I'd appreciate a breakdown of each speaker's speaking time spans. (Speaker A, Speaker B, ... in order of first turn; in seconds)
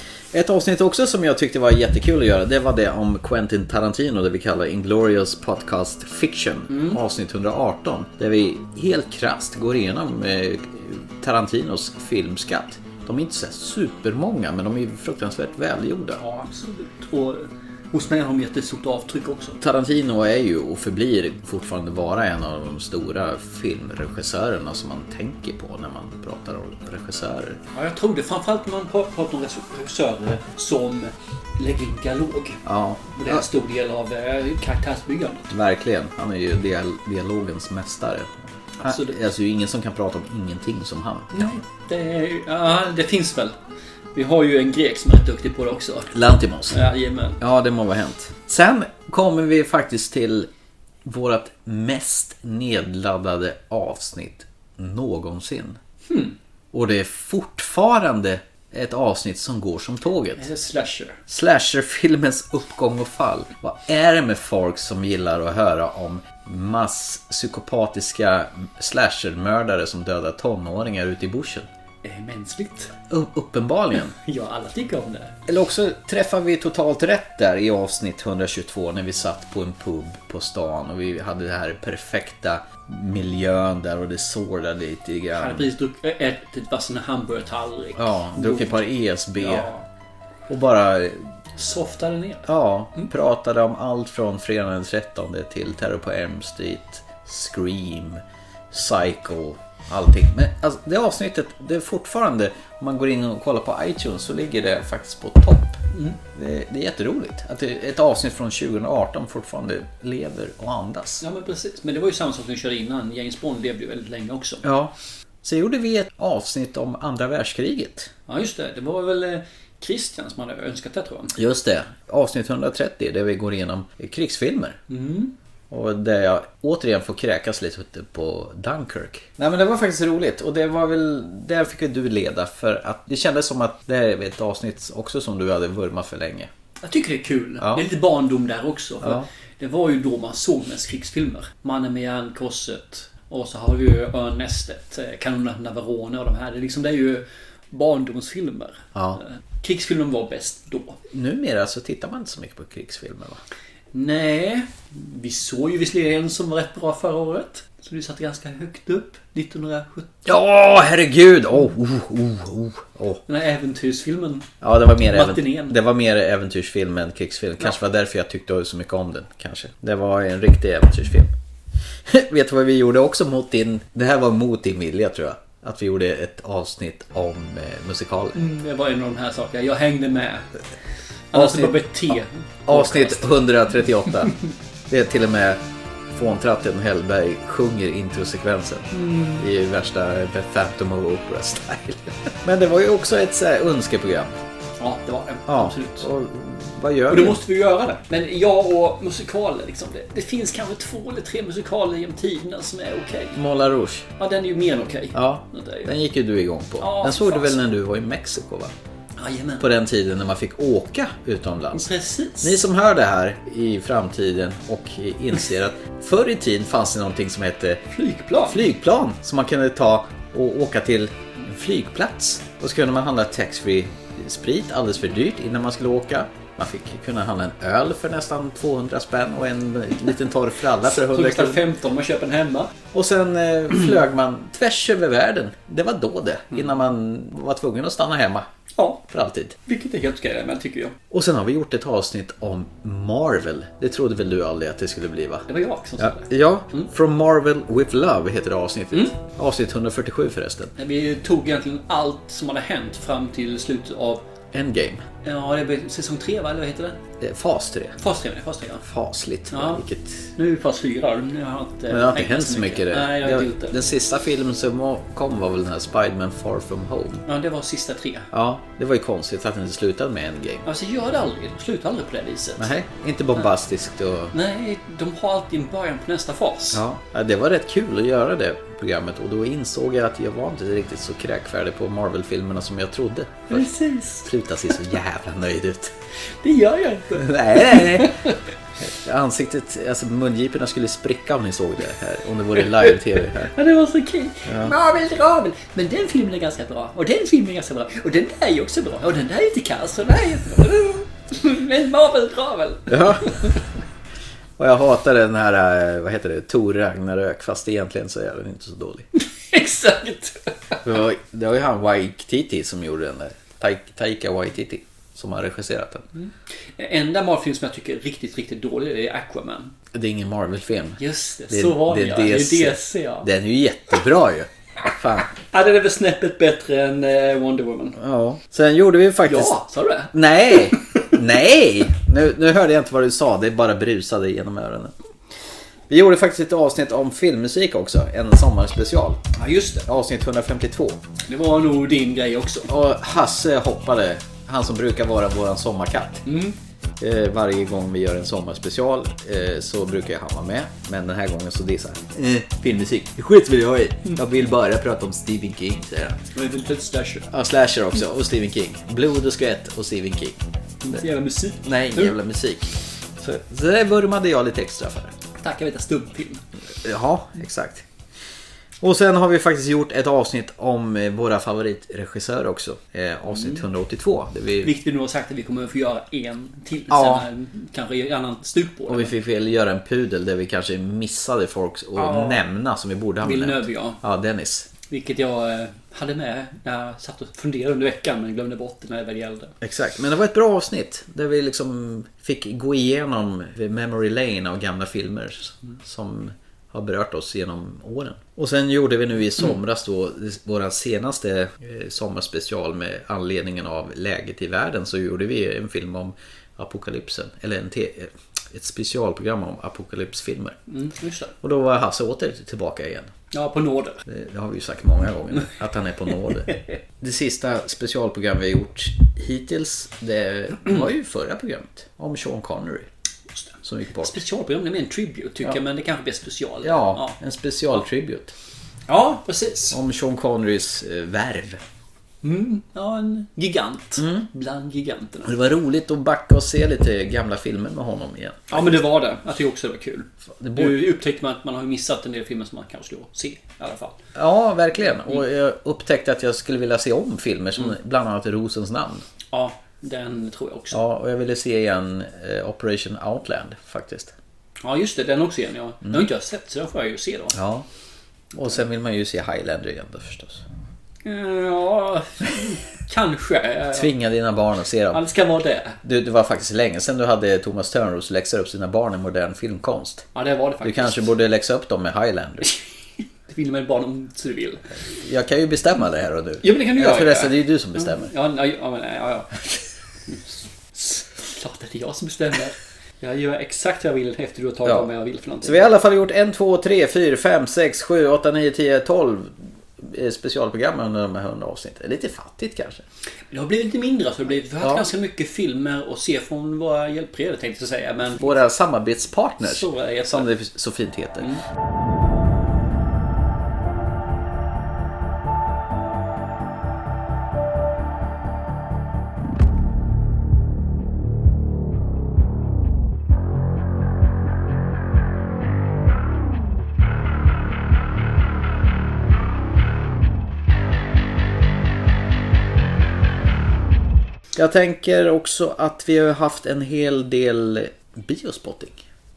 Speaker A: 0.3-16.2, 19.6-27.6, 32.6-33.5, 35.5-41.5, 46.1-46.8, 47.4-50.5, 51.0-55.8, 56.7-60.5, 61.3-71.7, 73.1-74.1, 75.5-85.7, 88.0-89.7, 90.5-91.3, 92.5-105.8, 106.3-111.2, 114.6-118.1, 121.3-124.8, 125.7-136.5, 137.6-137.8, 139.0-139.3, 148.9-149.2, 151.1-153.4, 160.2-163.2, 164.6-171.3, 172.1-178.4, 181.3-182.1, 182.7-184.3, 184.9-185.6, 186.1-194.3, 195.5-197.4, 203.3-204.1, 205.1-208.7, 209.6-211.9, 212.4-217.8, 218.4-231.6, 232.9-238.5, 239.1-239.5, 241.1-245.5, 246.0-250.7, 254.5-255.0, 257.2-257.9, 258.8-260.3, 261.9-267.2, 268.3-270.6, 272.6-274.3, 276.7-283.7, 284.2-285.9, 287.1-288.1, 288.8-293.5, 294.5-294.7, 302.9-303.5, 304.6-309.1, 310.8-316.1, 319.9-325.3, 328.0-329.6, 330.1-334.9, 335.9-339.2, 339.8-341.0, 342.7-346.2, 347.0-356.2, 357.3-360.4, 361.6-365.1, 366.8-367.9, 368.8-374.7, 376.9-377.2, 378.9-384.7, 389.6-410.6, 411.4-413.1, 414.1-416.5, 417.0-422.9, 423.6-424.2, 426.6-428.3, 429.7-431.6, 434.0-434.2, 435.2-438.8, 440.4-440.8, 444.1-449.0, 450.7-454.1, 457.3-457.6, 458.3-460.4, 463.7-465.0, 465.8-470.1, 470.6-472.5, 474.9-478.1, 484.6-484.9, 485.4-492.8, 498.2-501.3, 524.3-528.8
Speaker B: 6.7-7.0, 16.1-19.6, 27.7-32.6, 33.1-35.5, 38.8-39.2, 41.3-43.5, 44.1-46.1, 46.7-47.4, 56.1-56.4, 60.4-61.2, 72.0-72.9, 73.9-75.3, 85.3-88.8, 89.4-89.8, 91.5-93.1, 105.9-106.2, 111.2-114.6, 118.3-121.3, 124.9-125.3, 136.8-151.0, 153.9-160.1, 163.3-164.5, 165.1-165.8, 178.3-180.5, 181.3-183.5, 188.9-189.4, 194.8-196.1, 197.1-203.4, 204.2-205.9, 206.8-207.6, 209.2-209.7, 211.7-212.6, 217.9-218.7, 230.8-232.7, 238.8-239.0, 239.6-240.9, 245.5-246.9, 250.8-254.2, 255.2-257.0, 258.0-258.9, 259.5-259.8, 260.4-263.7, 267.2-268.3, 270.6-272.7, 274.3-276.8, 283.5-284.3, 286.4-288.4, 293.5-303.6, 309.2-310.8, 316.1-319.7, 321.0-323.3, 325.5-328.0, 329.2-331.0, 339.4-339.8, 341.3-342.7, 346.2-346.6, 356.3-357.3, 360.8-362.1, 365.4-366.4, 373.3-373.6, 374.6-379.1, 381.9-382.4, 383.2-384.0, 384.9-389.5, 410.7-411.3, 413.3-414.0, 416.2-416.8, 423.4-427.1, 428.9-429.8, 432.2-435.3, 438.5-444.0, 449.3-450.8, 454.6-457.4, 461.0-463.9, 464.9-465.8, 470.1-471.1, 473.3-474.6, 476.4-479.6, 480.7-485.7, 493.3-498.3, 499.4-500.3